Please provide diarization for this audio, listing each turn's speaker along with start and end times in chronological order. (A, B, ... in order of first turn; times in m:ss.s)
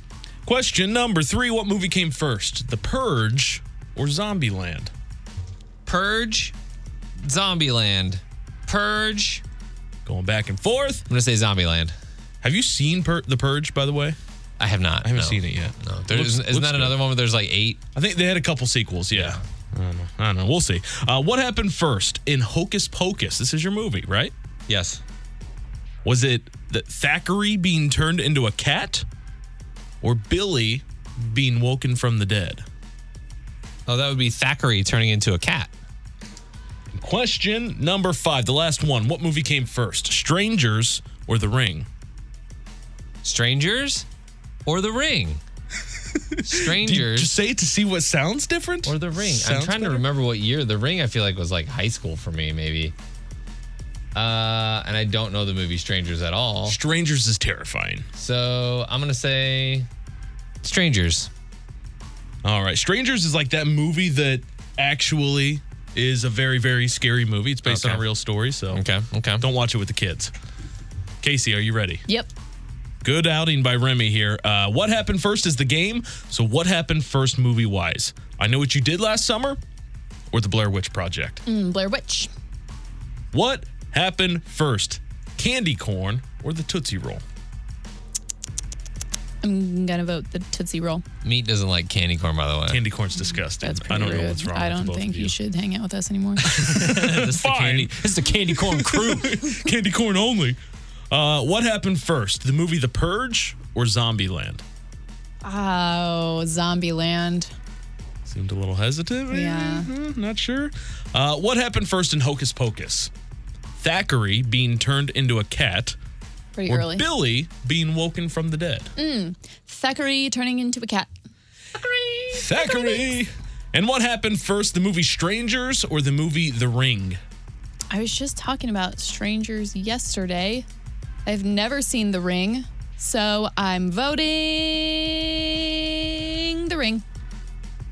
0:00.5-0:04.9 A
0:05.9-0:06.5 B
0:07.2-0:09.4 B
0:10.1-0:11.0 A
0:11.1-0:11.9 B
0:12.4-0:14.2 A
0:14.6-0:17.8 B
0:15.0-0:17.0 A
0:18.0-0:24.3 A
0:19.1-0:19.4 B
0:24.7-0:25.0 B
0:26.0-0:29.0 A
0:30.0-0:32.6 A
0:33.9-0:35.7 B
0:36.9-0:41.9 A
0:43.2-0:44.1 B
0:44.7-0:45.4 B
0:46.3-0:50.0 A
0:46.4-0:47.3 B
0:48.8-0:52.9 B
0:54.2-0:56.8 B
0:56.7-0:58.1 A
0:58.2-0:59.9 B
1:00.6-1:01.3 B
1:02.4-1:08.8 A
1:07.6-1:08.1 B
1:08.7-1:09.5 B
1:09.4-1:10.3 A
1:11.2-1:12.0 A
1:13.0-1:19.6 A
1:20.3-1:21.4 A
1:21.5-1:22.3 C
1:23.3-1:27.2 A
1:29.4-1:31.0 C
1:31.2-1:32.8 B
1:32.7-1:35.4 A
1:33.3-1:36.5 C
1:36.4-1:39.3 B
1:36.5-1:40.6 A
1:41.1-1:44.6 A
1:45.4-1:47.5 C
1:48.3-1:53.1 A
1:49.3-1:49.9 C
1:53.8-1:56.0 A
1:56.6-1:57.0 C
1:56.7-1:58.9 A
1:59.0-2:01.1 C
2:01.8-2:03.1 C
2:02.3-2:07.2 A
2:07.9-2:10.7 C
2:11.3-2:17.0 C